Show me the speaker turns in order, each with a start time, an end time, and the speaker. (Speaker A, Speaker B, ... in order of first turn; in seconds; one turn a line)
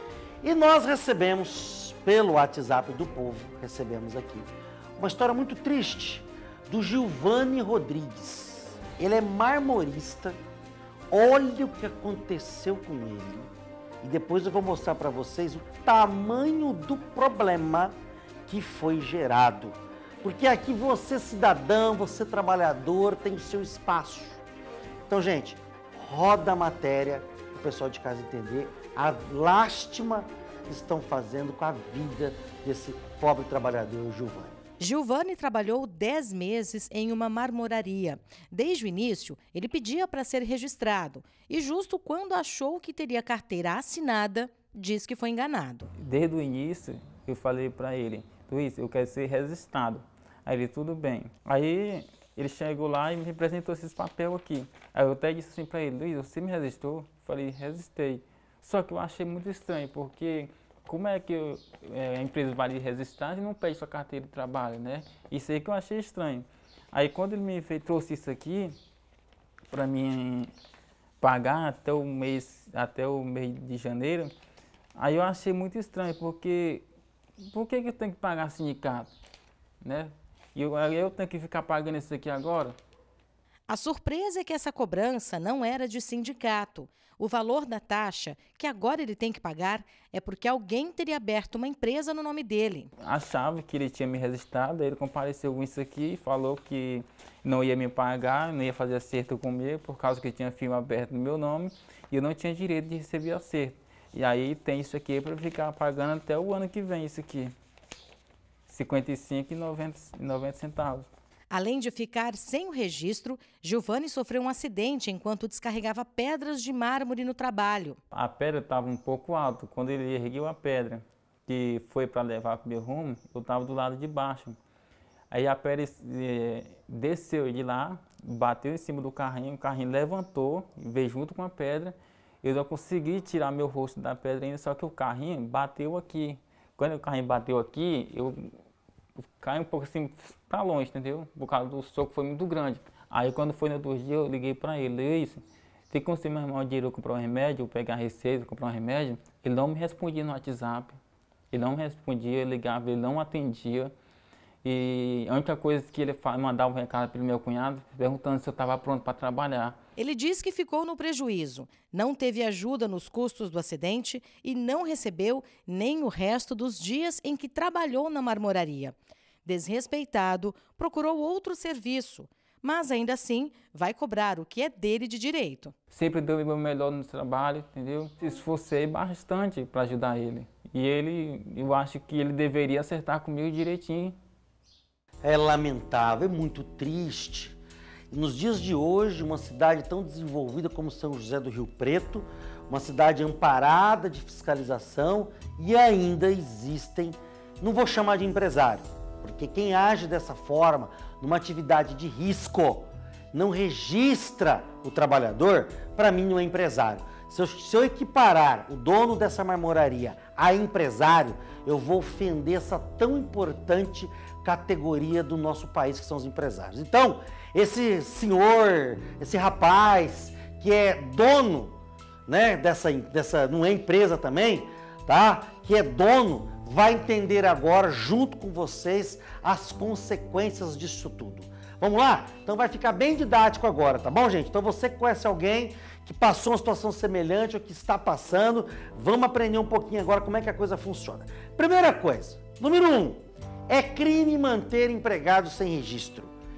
Speaker A: 0.4-10.4
Speaker A: 11.1-13.5
Speaker A: 14.0-17.9
Speaker A: 18.5-24.4
Speaker A: 25.1-34.6
Speaker B: 34.8-45.9
Speaker C: 46.0-68.8
Speaker C: 69.7-70.5
Speaker C: 71.2-74.3
Speaker C: 75.0-76.8
Speaker C: 77.5-79.1
Speaker C: 79.8-82.8
Speaker B: 83.7-92.9
Speaker C: 93.0-107.5
Speaker C: 108.7-111.1
Speaker B: 111.5-118.0
Speaker C: 118.1-124.6
Speaker C: 125.3-138.6
Speaker C: 139.4-151.0
Speaker C: 151.5-153.9
Speaker C: 154.6-159.8
Speaker B: 160.0-175.8
Speaker C: 175.9-184.2
Speaker A: 185.2-187.6
Speaker A: 188.1-221.8
Speaker A: 222.3-246.3